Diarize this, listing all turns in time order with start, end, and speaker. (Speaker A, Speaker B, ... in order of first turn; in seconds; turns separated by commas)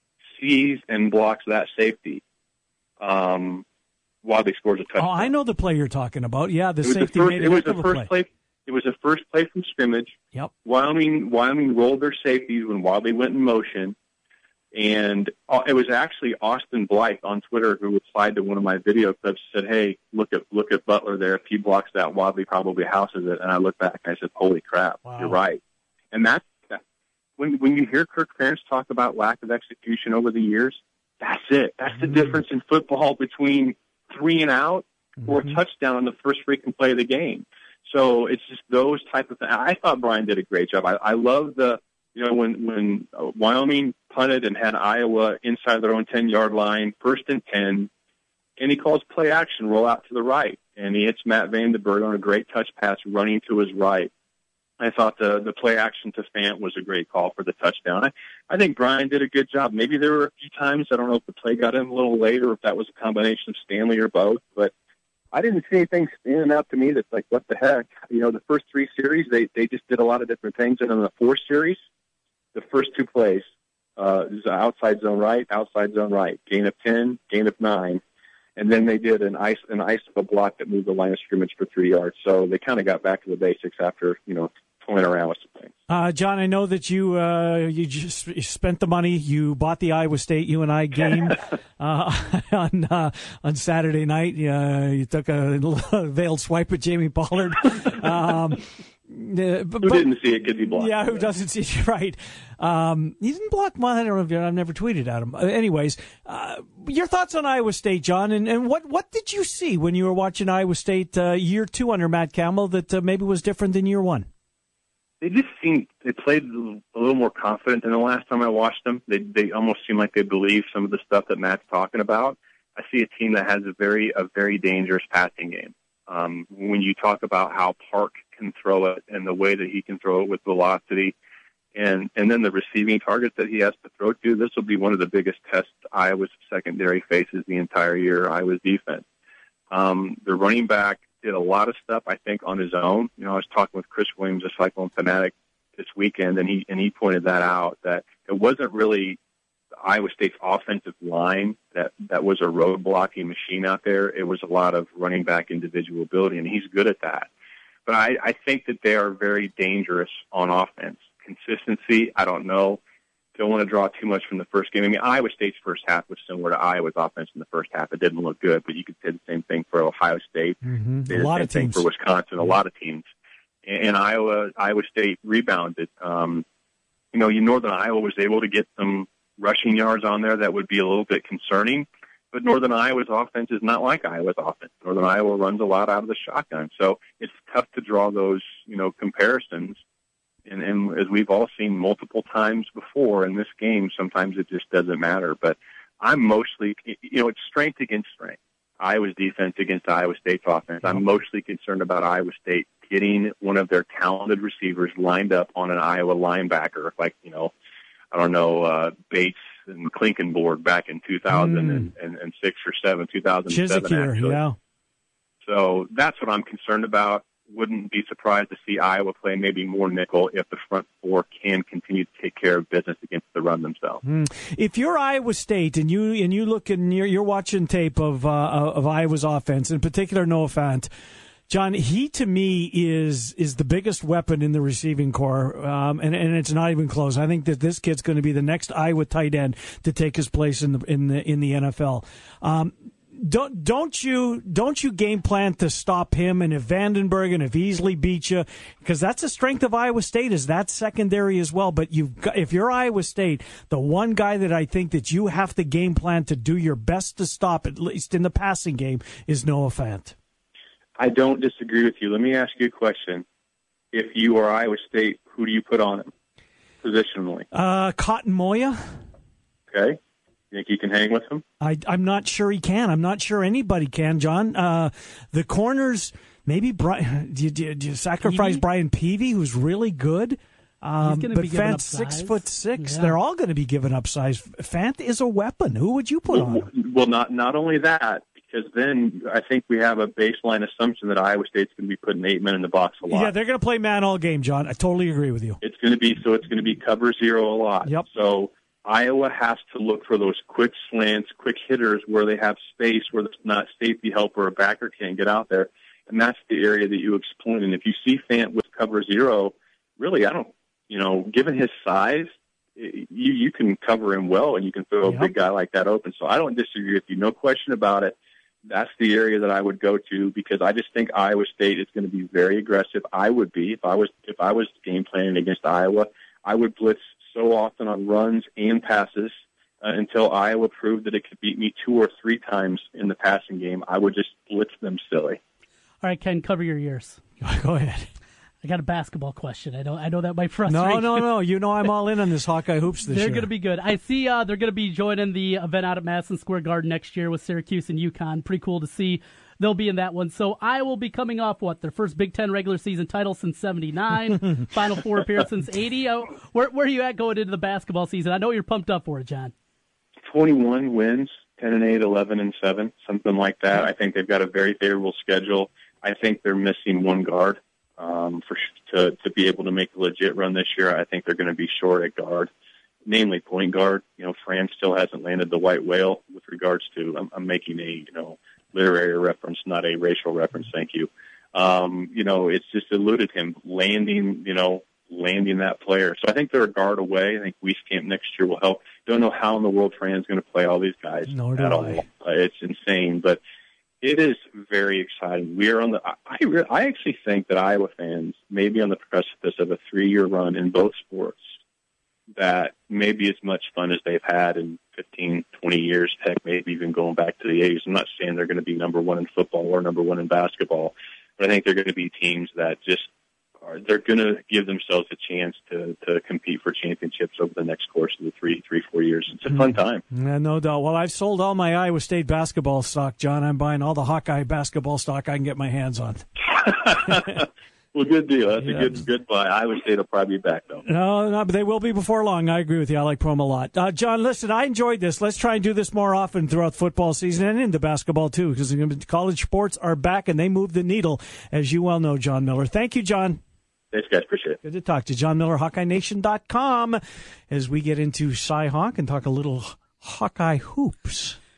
Speaker A: 0.3-2.2, Speaker A: 3.0-3.6, Speaker A: 4.2-5.3, Speaker B: 5.0-8.1, Speaker A: 6.8-13.9, Speaker A: 14.7-25.6, Speaker B: 25.1-25.4, Speaker A: 26.1-26.8, Speaker A: 27.4-47.9, Speaker B: 31.9-32.4, Speaker B: 35.2-35.6, Speaker A: 48.6-54.1, Speaker A: 54.8-64.7, Speaker A: 65.3-71.8, Speaker A: 72.5-73.5, Speaker A: 74.0-78.0, Speaker A: 78.6-85.7, Speaker B: 85.9-114.3, Speaker A: 99.8-101.3, Speaker A: 115.2-131.2, Speaker A: 131.8-139.0, Speaker A: 139.7-149.2, Speaker A: 149.8-157.3, Speaker A: 157.9-162.8, Speaker A: 163.3-173.1, Speaker B: 170.6-171.9, Speaker A: 173.7-176.4, Speaker A: 177.1-189.8, Speaker A: 190.5-207.5, Speaker A: 208.1-214.4, Speaker B: 211.3-211.9, Speaker B: 213.5-214.6, Speaker A: 215.4-224.0, Speaker B: 224.0-230.9, Speaker B: 231.5-260.1, Speaker A: 261.0-263.2, Speaker A: 263.9-266.1, Speaker A: 266.8-267.5, Speaker B: 267.5-269.0, Speaker A: 269.7-270.0, Speaker A: 270.5-271.4, Speaker B: 271.6-286.7, Speaker C: 278.2-278.6, Speaker C: 281.0-283.2, Speaker A: 286.3-293.3, Speaker B: 293.1-295.6, Speaker A: 295.6-335.4, Speaker B: 315.1-315.3, Speaker C: 336.0-337.2, Speaker B: 337.4-338.1, Speaker C: 338.6-341.3, Speaker B: 340.7-343.5, Speaker C: 343.1-359.5, Speaker B: 354.3-354.6, Speaker A: 360.3-372.5, Speaker A: 373.1-393.4, Speaker B: 391.3-392.0, Speaker A: 394.0-401.5, Speaker A: 402.4-413.1, Speaker A: 413.6-420.0, Speaker B: 419.5-426.3, Speaker A: 426.5-430.8, Speaker B: 427.1-427.4, Speaker B: 428.6-429.0, Speaker B: 430.9-443.4, Speaker A: 443.9-444.6, Speaker B: 444.6-451.4